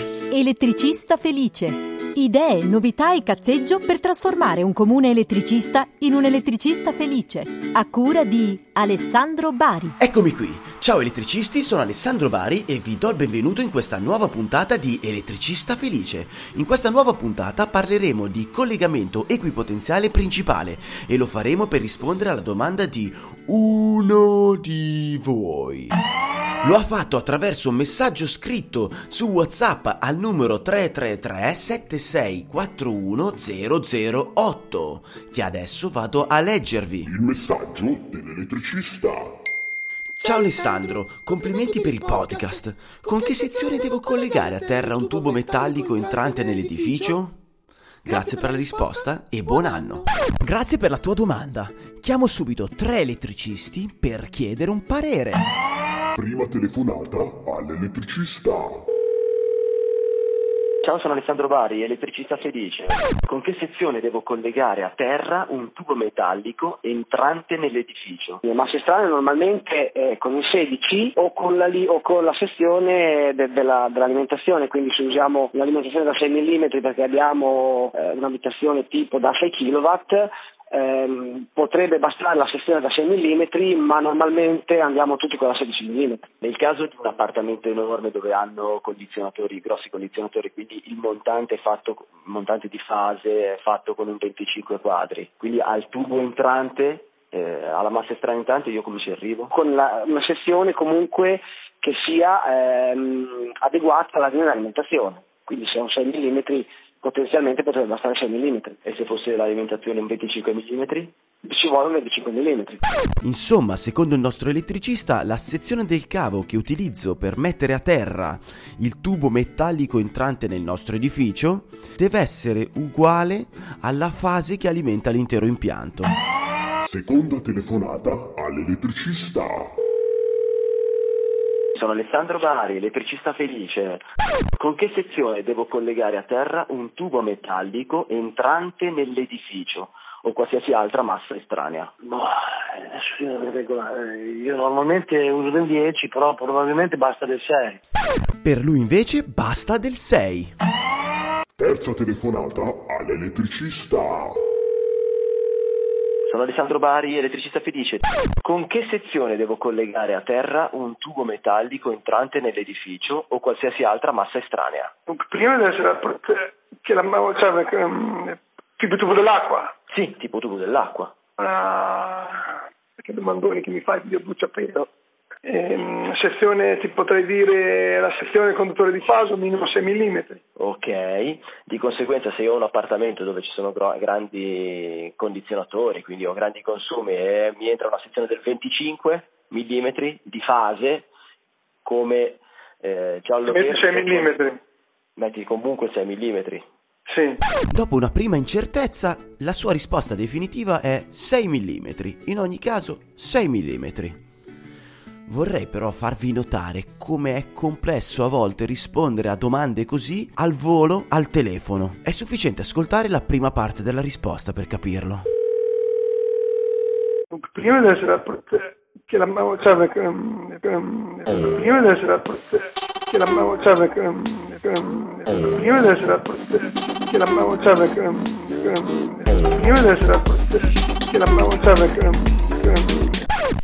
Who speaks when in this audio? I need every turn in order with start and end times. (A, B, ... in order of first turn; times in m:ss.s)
0:00.3-0:09.9 A
0:10.0-0:25.9 B
0:26.6-0:37.1 B
0:37.0-0:39.3 C
0:40.2-0:47.4 B
0:48.0-0:55.4 B
0:56.2-0:58.8 C
1:00.8-1:08.4 D
1:08.4-1:26.2 E
1:26.4-1:39.5 D
1:39.5-1:48.8 E
1:48.8-1:51.1 D
1:51.5-1:52.8 E
1:53.2-2:06.1 B
2:06.8-2:09.7 C
2:11.8-2:14.0 D
2:14.6-2:21.9 D
2:22.1-2:27.8 F
2:28.4-2:30.5 B
2:31.6-2:34.3 C
2:36.3-2:44.9 D
2:45.1-2:49.7 G
2:49.9-2:51.1 D
2:51.4-2:52.4 G
2:53.0-2:54.9 G
2:55.4-3:00.4 G
3:00.6-3:11.1 D
3:11.8-3:14.4 D
3:13.5-3:14.6 G
3:15.2-3:16.7 D
3:17.1-3:17.4 G
3:17.7-3:24.2 B
3:25.3-3:35.2 B
3:37.3-3:53.2 G